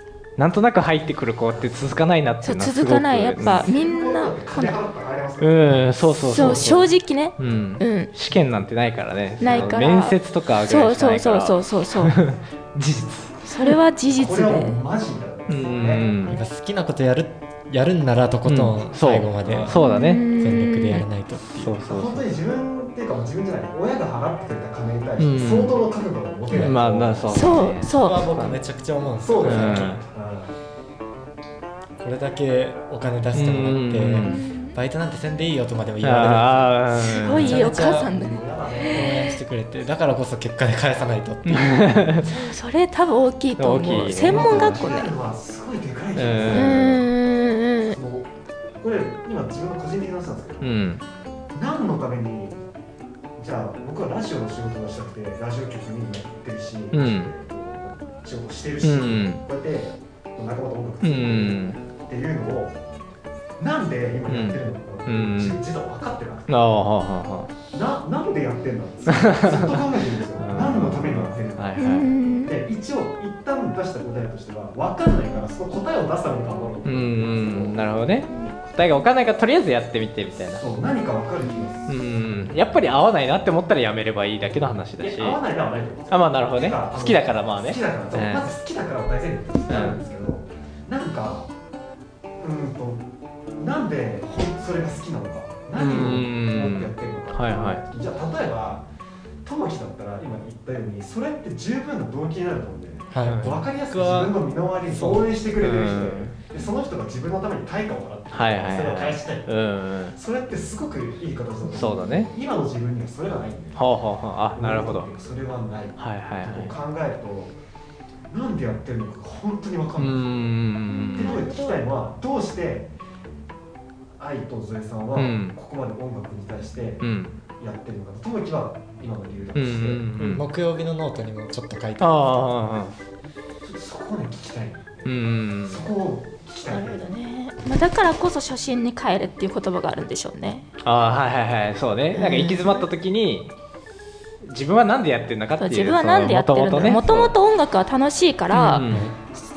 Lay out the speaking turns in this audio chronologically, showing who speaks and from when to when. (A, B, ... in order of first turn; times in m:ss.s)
0:00.4-0:03.7 A
0:02.4-0:04.8 B
0:03.4-0:06.9 C
0:05.4-0:13.4 A
0:06.2-0:08.1 B
0:09.4-0:09.8 C
0:09.4-0:12.2 B
0:13.4-0:14.8 B
0:14.1-0:16.1 C
0:15.5-0:16.4 A
0:16.2-0:21.8 D
0:18.4-0:20.2 A
0:19.7-0:21.0 B
0:21.5-0:22.2 A
0:21.9-0:27.6 C
0:25.2-0:25.8 A
0:26.5-0:26.8 D
0:26.5-0:28.6 A
0:27.3-0:28.2 B
0:27.8-0:30.0 D
0:29.2-0:30.6 C
0:29.4-0:30.0 A
0:32.0-0:38.1 D
0:33.3-0:34.4 A
0:34.2-0:34.8 B
0:36.0-0:37.6 A
0:37.0-0:39.4 B
0:37.4-0:39.2 C
0:38.9-0:42.2 D
0:41.4-0:42.3 A
0:42.2-0:45.1 B
0:43.6-0:44.9 A
0:44.1-0:47.0 C
0:46.2-0:47.0 A
0:46.5-0:48.0 B
0:47.9-0:50.7 C
0:50.6-0:51.0 A
0:51.5-0:52.6 C
0:53.4-1:02.8 C
0:56.9-0:57.3 A
0:58.8-0:59.4 A
1:01.0-1:01.8 A
1:03.6-1:06.7 C
1:04.3-1:05.6 A
1:06.5-1:07.5 A
1:07.7-1:11.9 C
1:09.1-1:12.1 A
1:11.8-1:12.5 B
1:12.4-1:17.8 C
1:16.8-1:20.6 A
1:18.3-1:18.6 B
1:20.6-1:22.3 C
1:21.5-1:21.8 B
1:21.9-1:25.4 A
1:25.0-1:31.5 C
1:26.1-1:28.5 A
1:29.7-1:30.0 A
1:32.4-1:33.0 C
1:33.6-1:38.8 C
1:35.8-1:37.8 A
1:39.4-1:49.5 C
1:43.1-1:44.4 D
1:43.2-1:43.6 A
1:44.9-1:45.3 D
1:45.6-1:46.4 A
1:48.3-1:50.2 A
1:50.1-1:53.8 C
1:51.7-1:52.3 A
1:53.7-1:55.1 A
1:54.5-1:57.6 C
1:56.0-1:56.7 A
1:58.3-2:00.3 C
2:00.0-2:01.4 A
2:00.9-2:01.8 B
2:01.2-2:02.9 C
2:04.2-2:10.1 C
2:05.1-2:05.6 A
2:07.0-2:07.4 A
2:09.5-2:10.4 A
2:10.2-2:12.4 D
2:12.0-2:13.0 A
2:13.6-2:17.0 C
2:15.0-2:15.9 A
2:16.7-2:20.7 B
2:20.8-2:23.5 A
2:22.1-2:22.9 B
2:24.4-2:27.3 A
2:25.6-2:28.8 B
2:28.5-2:29.1 A
2:28.8-2:29.1 D